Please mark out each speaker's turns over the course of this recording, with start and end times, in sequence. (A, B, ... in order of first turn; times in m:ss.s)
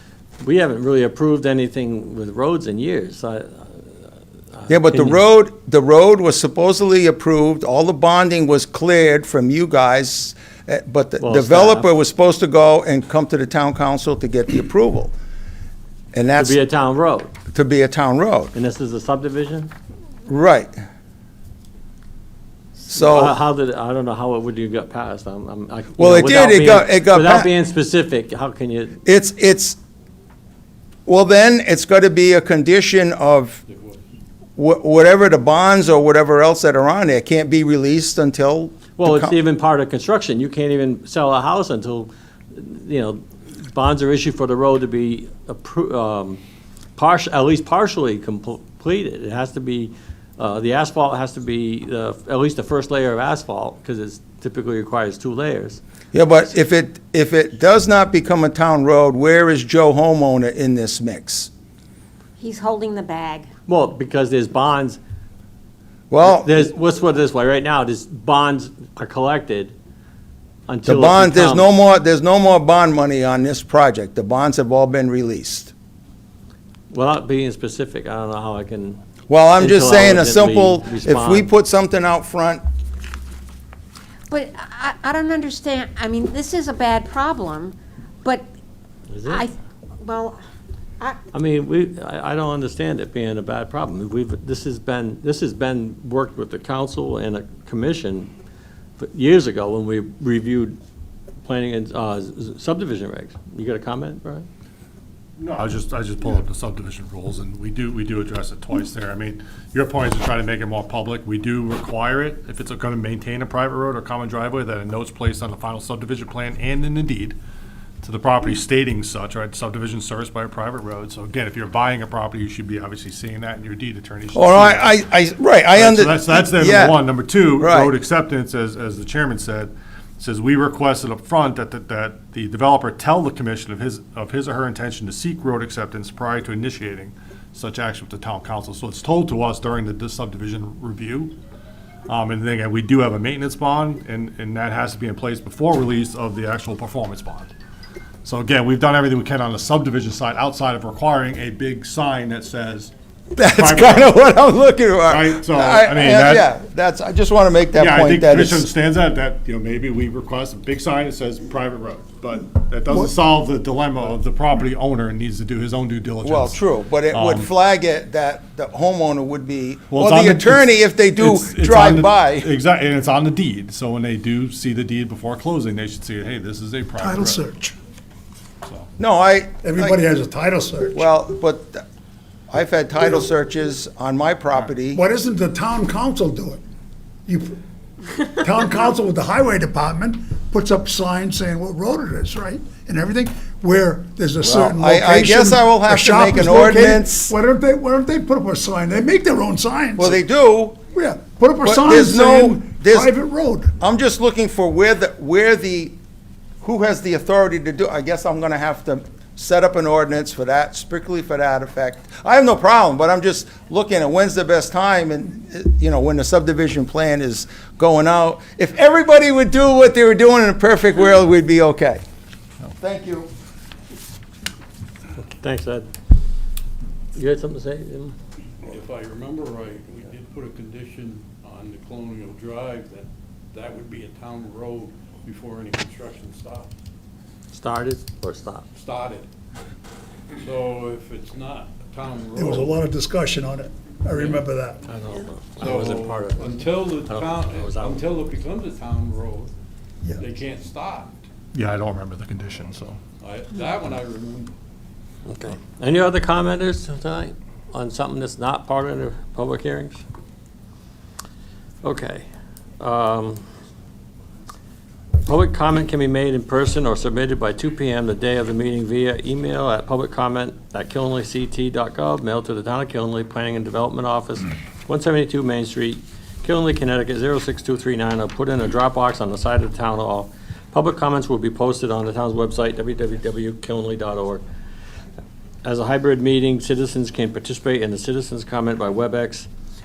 0:00.4-0:04.0 A
0:04.5-0:05.2 A
0:04.7-0:15.1 B
0:11.2-0:11.9 A
0:16.1-0:16.6 B
0:16.4-0:17.3 A
0:17.5-0:18.5 B
0:18.5-0:19.7 A
0:20.3-0:20.7 B
0:22.9-0:29.0 A
0:22.9-0:23.4 B
0:26.0-0:27.5 B
0:29.0-0:29.8 B
0:31.0-0:33.6 B
0:33.7-0:34.0 C
0:34.6-0:39.4 B
0:39.0-0:46.4 A
0:47.0-0:55.8 A
0:56.1-1:01.5 B
1:02.4-1:03.4 D
1:03.6-1:05.0 A
1:06.1-1:06.7 B
1:06.2-1:09.7 A
1:10.7-1:11.7 A
1:10.8-1:15.7 B
1:16.9-1:19.0 A
1:19.3-1:22.6 B
1:19.6-1:21.5 A
1:24.3-1:27.7 D
1:29.1-1:29.4 A
1:30.0-1:30.3 D
1:31.3-1:38.3 A
1:39.0-1:40.8 A
1:41.4-1:44.5 A
1:45.4-1:57.4 E
1:58.0-2:04.9 E
2:04.3-2:07.0 B
2:05.7-2:21.4 E
2:07.6-2:07.9 B
2:22.1-2:27.5 E
2:28.2-2:32.9 E
2:33.4-2:38.6 B
2:33.5-2:34.2 E
2:35.1-2:36.5 E
2:37.7-2:47.5 E
2:46.2-2:52.5 B
2:49.9-2:57.4 E
2:57.0-2:57.7 F
2:58.6-2:58.9 E
2:59.0-3:00.0 B
2:59.6-3:01.0 F
3:00.9-3:01.8 B
3:02.5-3:05.0 B
3:04.9-3:06.6 F
3:07.2-3:07.6 F
3:08.3-3:20.2 F
3:14.4-3:17.3 B
3:20.0-3:20.8 B
3:20.9-3:23.7 F
3:21.6-3:23.1 B
3:23.8-3:25.9 B
3:26.6-3:42.0 B
3:42.8-3:43.3 B
3:45.2-3:45.9 A
3:47.1-3:48.2 A
3:48.6-3:56.7 C
3:57.5-3:58.7 A
3:58.7-3:59.3 C
4:00.4-4:02.8 C
4:02.4-4:04.8 F
4:04.1-4:04.4 C
4:04.8-4:08.0 A
4:05.6-4:09.5 C
4:10.2-4:11.2 C
4:11.5-4:13.0 E
4:13.2-4:14.5 C
4:15.3-4:20.0 A
4:21.8-4:22.2 A
4:22.8-4:23.4 A
4:25.2-4:44.4 A
4:45.6-4:49.5 A